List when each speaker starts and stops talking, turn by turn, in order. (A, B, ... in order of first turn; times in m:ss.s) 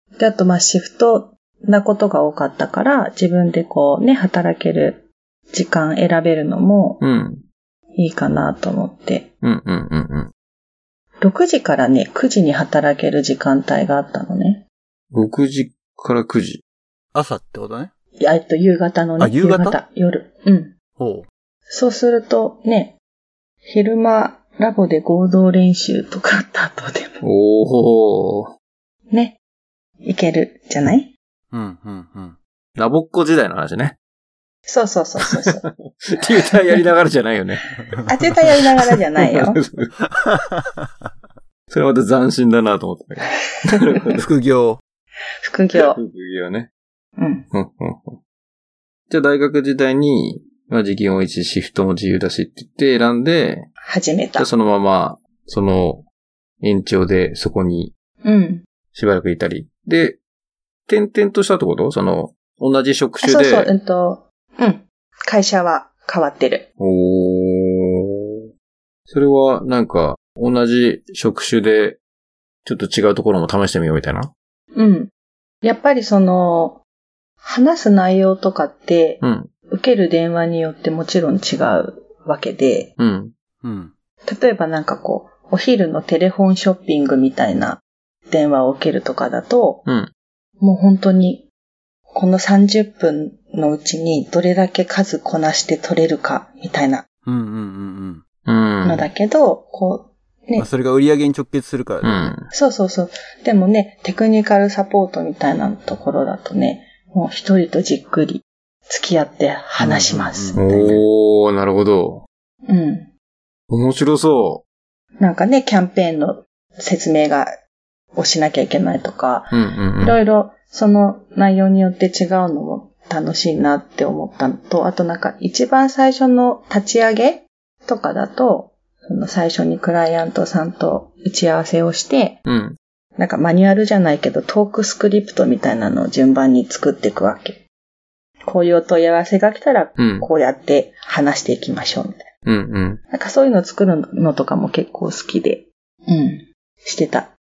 0:00.2-0:07.0 A
0:07.0-0:07.4 B
0:08.0-0:09.3 A
0:09.4-0:10.3 B
0:11.2-0:14.6 A
0:15.1-0:16.6 B
0:17.1-0:17.9 C
0:18.2-0:20.7 A
0:19.2-0:19.8 C
0:21.0-0:21.3 C
0:21.7-0:23.0 A
0:23.6-0:27.2 A
0:27.2-0:28.5 B
0:29.1-0:29.4 A
0:30.0-0:31.1 A
0:31.5-0:32.4 C
0:32.8-0:34.0 B
0:34.7-0:35.6 A
0:35.3-0:37.8 B
0:36.2-0:36.8 A
0:38.0-0:39.6 A
0:38.8-0:40.1 B
0:40.3-0:41.1 C
0:41.7-0:44.3 B
0:44.2-0:44.8 C
0:45.4-0:46.0 A
0:45.7-0:46.7 B
0:47.2-0:47.4 A
0:47.5-0:48.2 B
0:49.1-0:53.7 B
0:53.8-0:54.5 A
0:54.4-0:56.1 B
0:56.6-0:57.9 B
0:58.2-0:58.6 A
0:58.9-1:00.2 B
1:00.9-1:03.7 B
1:03.2-1:06.7 A
1:06.8-1:08.2 B
1:09.1-1:12.0 B
1:12.6-1:14.3 B
1:14.8-1:15.1 A
1:15.6-1:16.8 A
1:17.4-1:22.9 A
1:19.2-1:19.5 B
1:23.0-1:23.3 B
1:23.6-1:23.9 C
1:24.3-1:29.8 A
1:29.9-1:30.1 B
1:30.6-1:31.5 A
1:32.1-1:37.0 A
1:37.2-1:38.2 C
1:38.5-1:39.1 B
1:38.8-1:40.7 A
1:40.6-1:42.3 C
1:42.0-1:42.5 B
1:42.5-1:51.0 A
1:49.8-1:51.0 C
1:50.6-1:52.2 B
1:52.7-1:53.1 A
1:53.7-1:54.6 B
1:55.2-1:57.5 A
1:58.2-2:12.4 A
1:59.5-2:00.2 B
2:12.5-2:12.8 B
2:13.2-2:17.6 A
2:18.5-2:22.3 A
2:20.0-2:20.3 B
2:22.4-2:23.0 B
2:23.1-2:27.3 A